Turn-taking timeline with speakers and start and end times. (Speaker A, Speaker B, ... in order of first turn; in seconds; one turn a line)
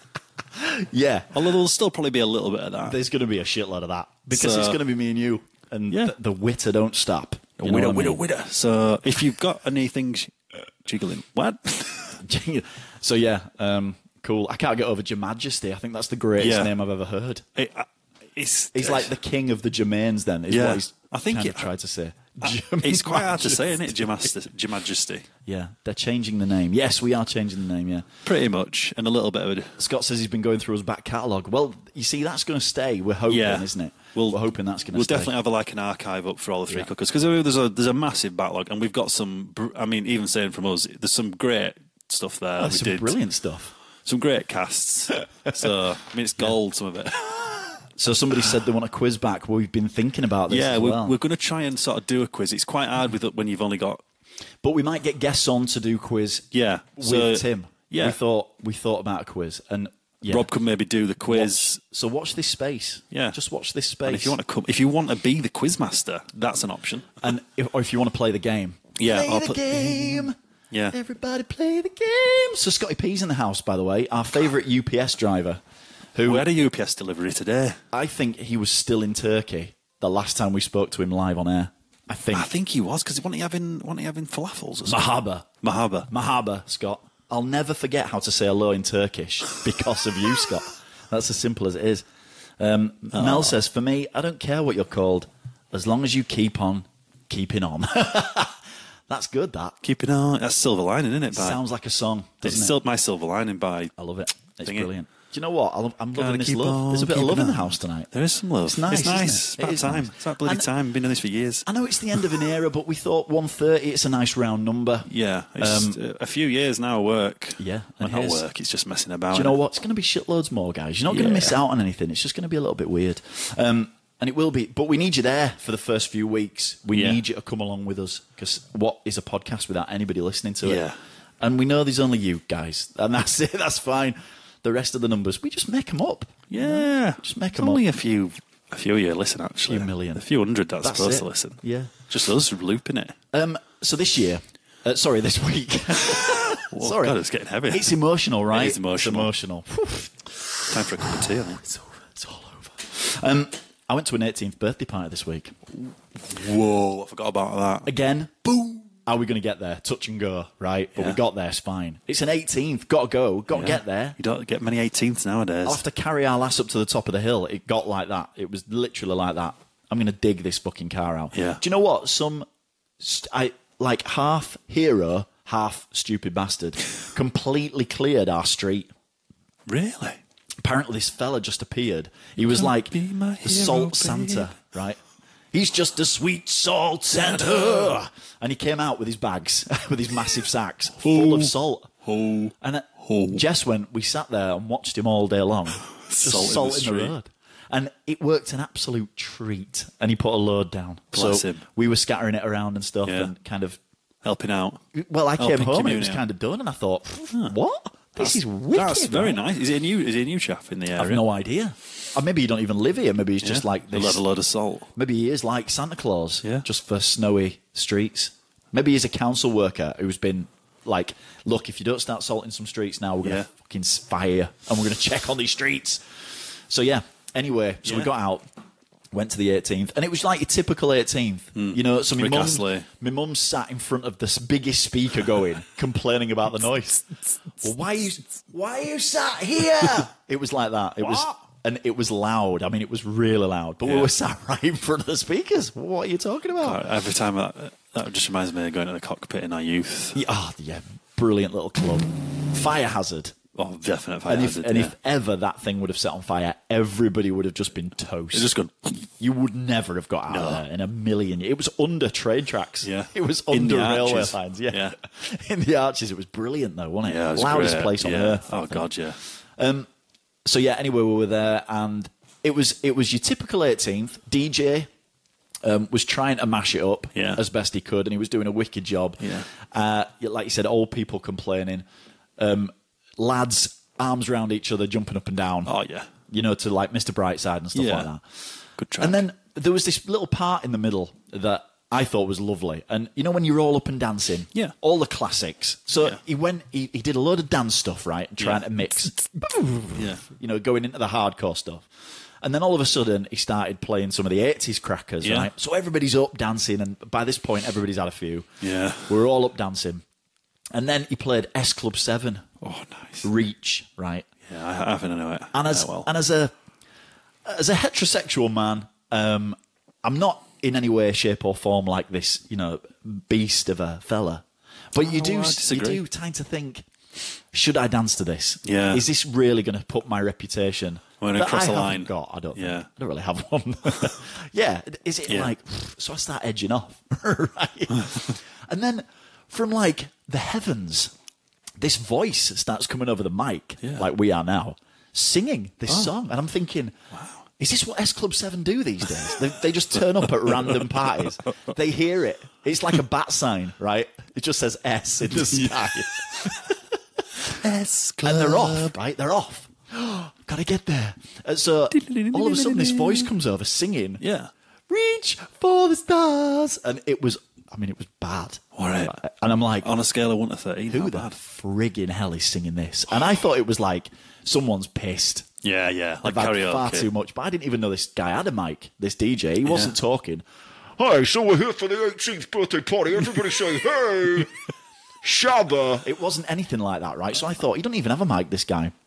Speaker A: 0.6-1.3
Speaker B: 1.3-3.0
Speaker A: 2.9-8.2
Speaker B: 4.3-4.8
Speaker B: 5.9-6.2
Speaker B: 7.6-12.2
Speaker A: 12.2-17.4
Speaker B: 16.4-16.7
Speaker B: 17.6-19.1
Speaker A: 18.7-24.3
Speaker B: 20.5-21.7
Speaker B: 22.4-25.3
Speaker A: 25.4-28.1
Speaker B: 28.2-29.8
Speaker A: 29.8-35.3
Speaker B: 33.3-34.4
Speaker B: 34.9-43.2
Speaker A: 42.6-43.7
Speaker B: 44.0-47.3
Speaker A: 48.0-51.2
Speaker B: 50.5-54.0
Speaker A: 54.6-60.5
Speaker B: 56.5-58.2
Speaker B: 60.3-61.8
Speaker A: 61.3-64.4
Speaker B: 63.1-63.4
Speaker B: 64.0-67.2
Speaker A: 67.2-70.3
Speaker B: 69.0-71.0
Speaker A: 70.9-75.6
Speaker A: 76.2-76.5
Speaker B: 76.2-77.8
Speaker A: 77.9-82.5
Speaker B: 82.3-85.1
Speaker A: 84.9-85.5
Speaker B: 85.6-86.1
Speaker A: 86.1-92.0
Speaker A: 92.6-99.8
Speaker B: 93.1-93.5
Speaker B: 99.8-101.6
Speaker A: 101.3-102.8
Speaker B: 102.4-103.9
Speaker A: 104.0-108.1
Speaker B: 104.6-104.9
Speaker B: 106.2-112.2
Speaker A: 108.7-110.7
Speaker A: 111.7-115.1
Speaker B: 115.1-119.6
Speaker A: 115.6-116.0
Speaker A: 117.6-118.5
Speaker A: 119.3-130.9
Speaker B: 121.1-121.6
Speaker B: 126.9-127.2
Speaker B: 130.6-131.0
Speaker A: 131.4-137.8
Speaker B: 136.5-143.2
Speaker A: 139.7-140.2
Speaker A: 140.8-141.9
Speaker A: 143.3-147.2
Speaker B: 146.2-148.0
Speaker A: 147.7-155.6
Speaker B: 148.5-149.3
Speaker B: 150.7-151.6
Speaker B: 156.2-157.9
Speaker A: 157.8-164.2
Speaker B: 163.5-165.8
Speaker A: 165.7-172.5
Speaker B: 171.3-171.6
Speaker A: 173.0-178.9
Speaker B: 179.7-180.2
Speaker A: 180.6-185.0
Speaker B: 182.5-184.5
Speaker A: 185.5-191.9
Speaker B: 187.2-187.9
Speaker B: 191.0-191.5
Speaker B: 192.1-193.4
Speaker A: 192.6-203.8
Speaker B: 195.8-197.2
Speaker B: 201.1-201.6
Speaker B: 203.1-203.3
Speaker B: 204.2-204.8
Speaker A: 204.9-209.4
Speaker B: 205.4-206.2
Speaker B: 208.2-211.2
Speaker A: 211.0-214.2
Speaker B: 213.4-214.9
Speaker A: 215.0-226.1
Speaker B: 223.2-223.5
Speaker A: 226.7-228.5
Speaker B: 227.8-228.1
Speaker A: 229.1-246.8
Speaker B: 231.6-232.9
Speaker B: 241.0-241.3
Speaker B: 243.8-244.1
Speaker B: 246.6-250.2
Speaker A: 250.2-253.3
Speaker B: 253.6-254.9
Speaker A: 254.3-258.5
Speaker B: 258.3-259.1
Speaker A: 259.2-268.9
Speaker B: 260.3-260.6
Speaker B: 262.8-265.0
Speaker B: 267.0-269.2
Speaker A: 269.6-269.9
Speaker A: 270.4-274.9
Speaker A: 275.6-281.9
Speaker B: 277.1-277.4
Speaker B: 279.2-279.5
Speaker A: 282.4-285.7
Speaker B: 285.7-286.1
Speaker A: 286.3-288.2
Speaker B: 287.8-288.1
Speaker B: 288.8-289.2
Speaker A: 289.0-301.9
Speaker B: 298.4-298.7
Speaker B: 299.9-300.2
Speaker A: 302.4-308.5
Speaker B: 305.2-305.5
Speaker B: 308.6-309.2
Speaker A: 309.1-310.0
Speaker A: 310.7-312.5
Speaker B: 312.6-313.3
Speaker A: 313.2-314.3
Speaker B: 314.5-316.1
Speaker A: 315.5-316.5
Speaker A: 317.4-326.9
Speaker B: 325.0-326.0
Speaker A: 327.5-341.1
Speaker B: 328.6-329.1
Speaker B: 331.2-332.9
Speaker B: 335.3-335.5
Speaker A: 341.8-346.9
Speaker B: 347.1-347.4
Speaker A: 347.6-357.6
Speaker B: 350.5-350.8
Speaker B: 357.5-359.0
Speaker A: 358.2-364.2
Speaker B: 361.9-363.3
Speaker B: 364.2-364.5
Speaker A: 364.9-369.9
Speaker B: 368.8-369.2
Speaker B: 369.8-371.4
Speaker A: 370.9-375.5
Speaker B: 375.6-377.1
Speaker A: 376.2-380.4
Speaker B: 379.6-380.0
Speaker A: 381.0-384.6
Speaker A: 385.2-388.9